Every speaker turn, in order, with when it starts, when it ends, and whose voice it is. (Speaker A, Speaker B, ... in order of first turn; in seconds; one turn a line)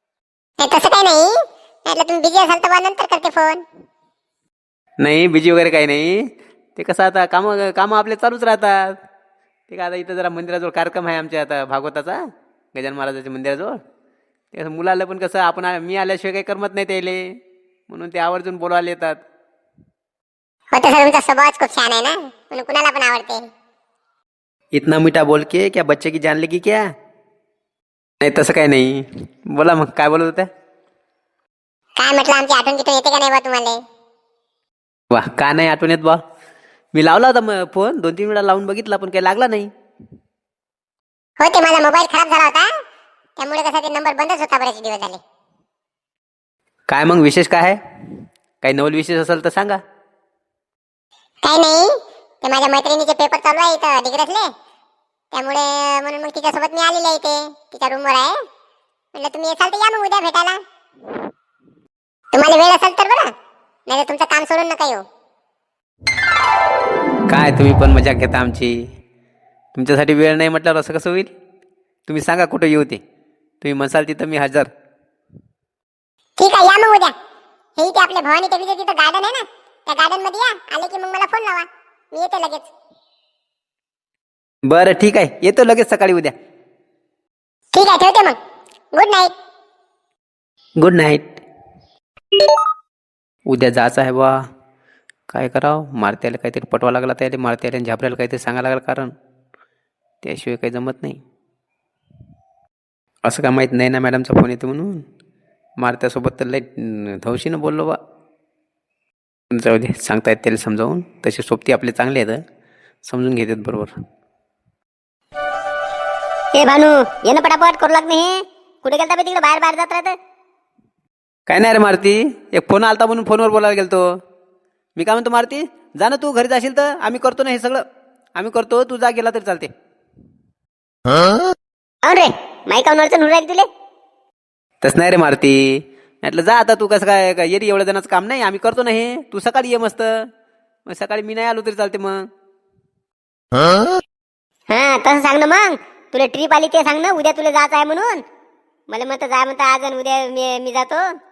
Speaker A: 0.6-3.6
Speaker B: 5.0-6.2
Speaker B: 6.8-9.0
Speaker B: 9.7-13.8
Speaker B: 14.5-17.2
Speaker B: 17.9-19.2
Speaker A: 20.7-23.4
Speaker B: 24.7-26.8
Speaker B: 28.2-30.5
Speaker A: 32.0-33.8
Speaker B: 35.1-36.2
Speaker B: 36.9-39.7
Speaker A: 41.4-42.7
Speaker A: 43.4-45.2
Speaker B: 46.9-47.8
Speaker B: 48.6-49.8
Speaker A: 51.4-54.5
Speaker A: 55.3-58.4
Speaker A: 59.1-60.6
Speaker A: 62.3-63.3
Speaker A: 63.9-65.0
Speaker B: 67.3-68.9
Speaker B: 69.7-71.3
Speaker B: 72.1-73.0
Speaker B: 73.6-74.7
Speaker A: 76.4-77.1
Speaker A: 77.8-82.7
Speaker B: 84.7-86.3
Speaker A: 87.7-88.4
Speaker A: 88.9-89.3
Speaker B: 90.8-91.4
Speaker B: 93.5-94.3
Speaker B: 95.3-99.1
Speaker B: 100.2-101.2
Speaker B: 103.2-105.0
Speaker B: 105.8-108.0
Speaker B: 109.5-112.4
Speaker B: 113.0-114.0
Speaker C: 116.5-120.1
Speaker B: 121.5-124.1
Speaker B: 125.0-127.8
Speaker B: 128.3-129.7
Speaker C: 132.0-133.7
Speaker B: 134.8-140.3
Speaker B: 140.9-142.3
Speaker C: 144.7-148.2
Speaker C: 148.9-151.0